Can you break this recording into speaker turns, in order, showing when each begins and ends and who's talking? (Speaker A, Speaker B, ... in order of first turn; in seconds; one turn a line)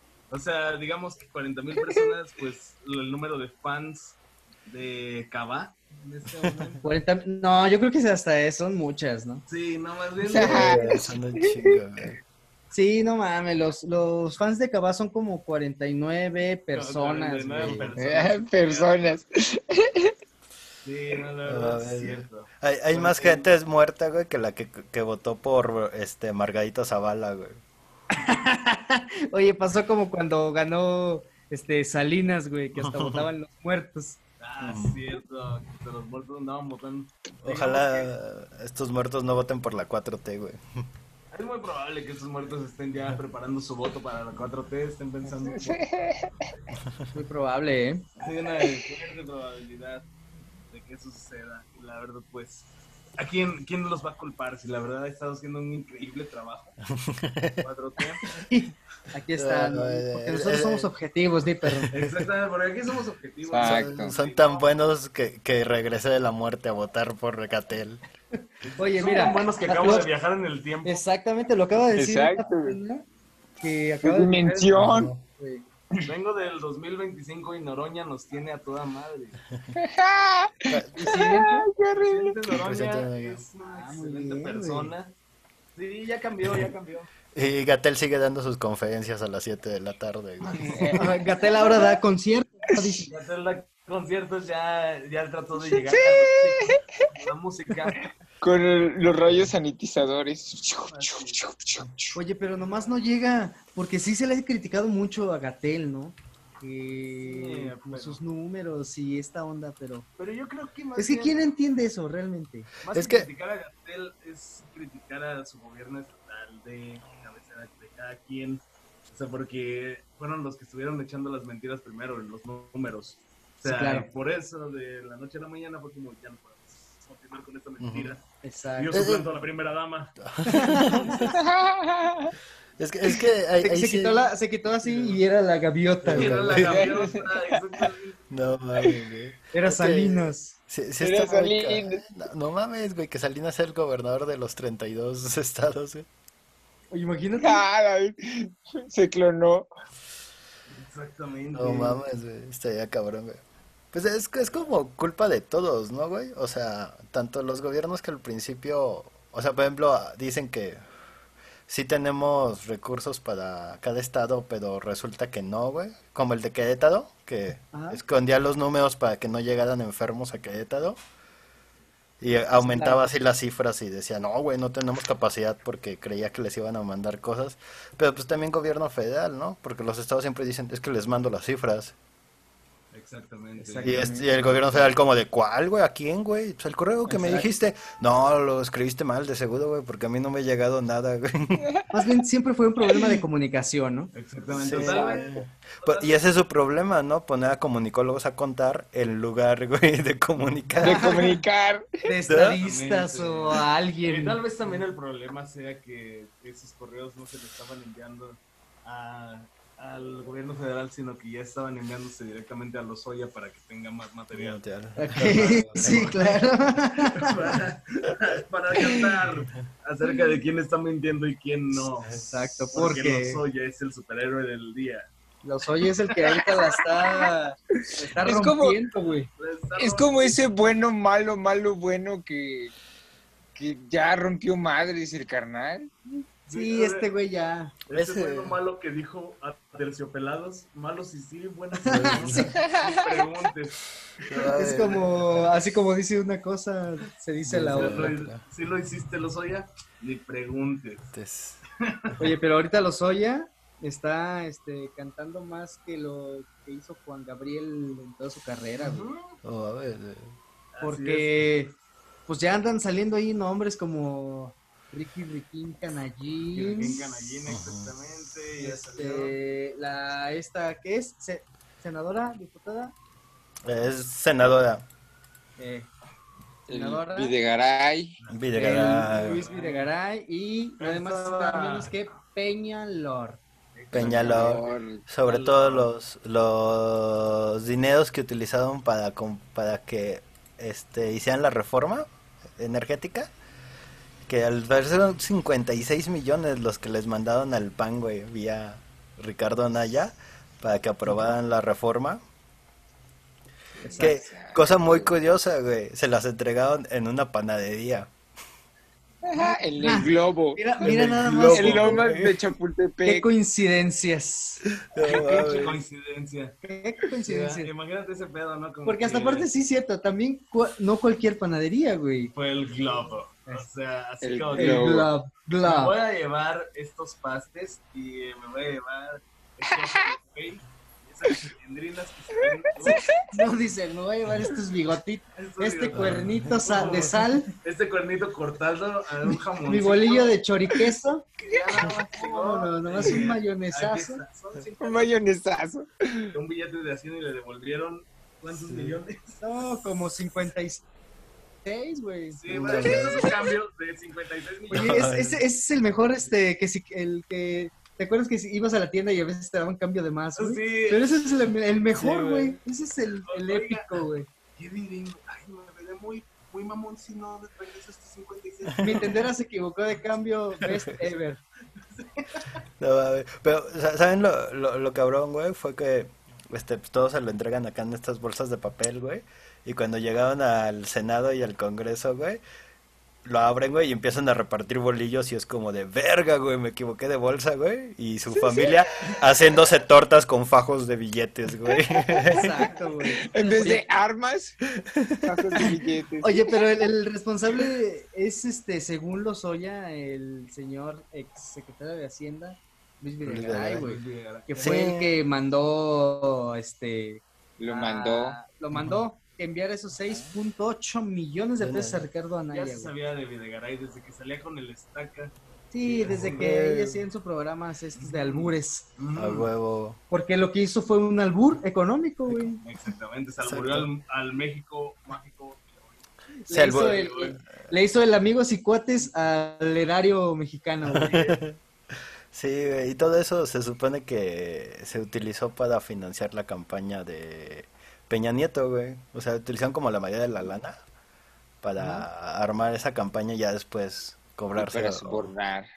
Speaker A: 0.3-6.8
Speaker B: 6.8-9.4
Speaker A: 9.5-10.9
Speaker C: 10.2-11.5
Speaker D: 10.3-12.2
Speaker B: 12.7-17.9
Speaker A: 16.7-19.2
Speaker D: 17.6-17.9
Speaker C: 17.9-20.1
Speaker A: 20.8-23.5
Speaker D: 21.4-27.6
Speaker B: 28.1-34.2
Speaker D: 32.8-33.3
Speaker A: 34.4-38.1
Speaker D: 34.6-35.0
Speaker D: 37.4-40.6
Speaker A: 41.3-45.9
Speaker C: 45.4-46.5
Speaker B: 47.1-48.0
Speaker A: 48.2-50.1
Speaker C: 48.6-48.9
Speaker A: 50.7-56.8
Speaker D: 56.9-57.6
Speaker A: 57.6-58.2
Speaker B: 58.5-61.9
Speaker D: 59.4-60.9
Speaker D: 61.6-62.2
Speaker A: 61.9-64.9
Speaker C: 63.5-64.1
Speaker D: 63.6-68.0
Speaker A: 68.6-71.0
Speaker B: 68.8-70.1
Speaker B: 70.8-73.0
Speaker C: 72.0-72.8
Speaker B: 73.6-75.7
Speaker C: 74.0-75.1
Speaker D: 74.8-75.1
Speaker A: 76.1-79.4
Speaker C: 79.8-82.4
Speaker D: 80.7-81.2
Speaker B: 80.9-81.7
Speaker A: 82.0-85.1
Speaker D: 82.5-83.4
Speaker B: 83.7-84.9
Speaker A: 85.8-87.1
Speaker D: 87.3-91.0
Speaker A: 90.4-91.0
Speaker C: 90.5-92.0
Speaker B: 90.9-93.1
Speaker A: 93.1-98.1
Speaker C: 95.6-96.8
Speaker C: 98.4-102.2
Speaker A: 100.9-101.4
Speaker B: 102.1-110.1
Speaker A: 107.2-108.2
Speaker A: 110.2-111.5
Speaker B: 111.0-112.7
Speaker A: 112.8-128.2
Speaker D: 112.9-113.3
Speaker B: 123.6-124.1
Speaker D: 127.8-128.1
Speaker B: 128.4-129.0
Speaker A: 128.8-130.1
Speaker D: 128.9-129.3
Speaker D: 130.2-131.3
Speaker B: 130.5-131.3
Speaker A: 130.8-131.2
Speaker C: 131.2-132.3
Speaker D: 132.8-134.3
Speaker B: 133.6-136.6
Speaker A: 134.8-135.2
Speaker A: 136.0-138.4
Speaker D: 136.0-136.9
Speaker C: 136.6-137.4
Speaker D: 138.3-146.1
Speaker B: 139.5-140.6
Speaker C: 141.0-142.0
Speaker B: 146.9-147.6
Speaker C: 147.4-149.7
Speaker A: 150.7-152.0
Speaker D: 151.6-153.4
Speaker D: 153.9-160.8
Speaker D: 161.7-171.0
Speaker B: 167.7-168.0
Speaker D: 172.2-181.9
Speaker B: 172.5-173.1
Speaker A: 182.9-184.0
Speaker B: 183.6-184.9
Speaker D: 183.8-191.7
Speaker B: 187.1-187.5
Speaker B: 191.9-194.1
Speaker A: 194.1-195.3
Speaker D: 194.6-201.1
Speaker C: 194.7-195.4
Speaker A: 195.8-196.3
Speaker C: 200.8-201.9
Speaker B: 200.8-201.4
Speaker B: 202.1-204.4
Speaker D: 202.3-202.6
Speaker A: 202.6-214.6
Speaker D: 214.3-216.4
Speaker B: 214.9-217.4
Speaker A: 215.1-222.2
Speaker C: 218.8-219.1
Speaker D: 221.7-222.6
Speaker B: 222.2-223.4
Speaker A: 222.7-225.1
Speaker B: 225.4-229.3
Speaker C: 227.8-228.8
Speaker A: 229.4-230.5
Speaker C: 229.8-232.7
Speaker C: 233.6-236.0
Speaker A: 236.5-237.1
Speaker B: 236.5-237.7
Speaker A: 237.9-245.0
Speaker D: 237.9-238.6
Speaker B: 241.8-242.6
Speaker D: 241.9-242.5
Speaker C: 242.6-243.2
Speaker D: 244.3-245.5
Speaker B: 244.5-248.1
Speaker D: 247.4-248.4
Speaker A: 247.7-251.1
Speaker D: 251.1-251.6
Speaker B: 252.2-259.1
Speaker A: 258.8-259.4
Speaker D: 259.4-260.4
Speaker A: 260.7-261.5
Speaker B: 260.8-267.3
Speaker A: 266.5-269.4
Speaker D: 267.5-267.9
Speaker B: 268.6-272.9
Speaker D: 273.6-274.8
Speaker B: 275.6-275.9
Speaker C: 276.7-278.2
Speaker B: 276.7-277.4
Speaker A: 278.2-279.9
Speaker D: 278.3-279.5
Speaker B: 278.5-283.4
Speaker A: 280.8-281.9
Speaker A: 283.8-285.9
Speaker D: 283.9-293.3
Speaker C: 284.0-285.0
Speaker D: 294.3-302.2
Speaker B: 301.1-301.4
Speaker C: 303.8-305.3
Speaker B: 303.8-304.2
Speaker D: 304.0-308.1
Speaker C: 309.2-310.9
Speaker B: 309.8-312.0
Speaker D: 310.8-312.4
Speaker C: 311.5-313.3
Speaker B: 313.0-314.6
Speaker D: 314.8-315.8
Speaker A: 315.0-316.6
Speaker B: 316.6-317.7
Speaker A: 317.2-319.5
Speaker B: 318.9-322.3
Speaker A: 322.3-325.0
Speaker C: 324.2-325.1
Speaker B: 324.5-326.0
Speaker A: 325.6-333.2
Speaker B: 332.8-337.5
Speaker A: 335.4-340.4
Speaker D: 335.9-337.2
Speaker B: 339.6-341.2
Speaker A: 341.4-345.2
Speaker B: 342.0-344.2
Speaker C: 344.8-346.3
Speaker A: 346.3-349.4
Speaker D: 348.5-349.0
Speaker B: 349.4-350.9
Speaker B: 351.6-352.4
Speaker A: 352.3-355.1
Speaker D: 352.5-353.3
Speaker C: 352.8-353.5
Speaker B: 354.7-364.3
Speaker D: 354.7-355.4
Speaker A: 360.4-361.1
Speaker D: 362.0-362.6
Speaker A: 363.3-364.0
Speaker A: 364.6-369.3
Speaker B: 368.8-371.4
Speaker D: 370.6-370.9
Speaker D: 372.8-382.4
Speaker D: 383.2-392.6
Speaker C: 388.3-389.3
Speaker C: 391.7-392.6
Speaker B: 392.3-393.9
Speaker C: 393.2-394.6
Speaker D: 394.8-395.7
Speaker C: 395.2-396.4
Speaker B: 396.2-412.9
Speaker D: 403.2-403.9
Speaker A: 403.7-404.8
Speaker D: 404.6-405.1
Speaker C: 407.6-408.4
Speaker D: 408.7-409.0
Speaker D: 411.6-412.0
Speaker A: 412.5-416.5
Speaker B: 415.7-418.9
Speaker D: 416.1-417.0
Speaker A: 417.9-419.5
Speaker D: 419.1-420.0
Speaker B: 420.1-422.6
Speaker A: 422.6-427.4
Speaker D: 423.4-423.9
Speaker B: 426.5-431.4
Speaker D: 426.5-427.1
Speaker D: 430.9-431.6
Speaker D: 432.3-440.8
Speaker D: 441.6-445.3
Speaker B: 441.8-442.1
Speaker C: 444.6-445.7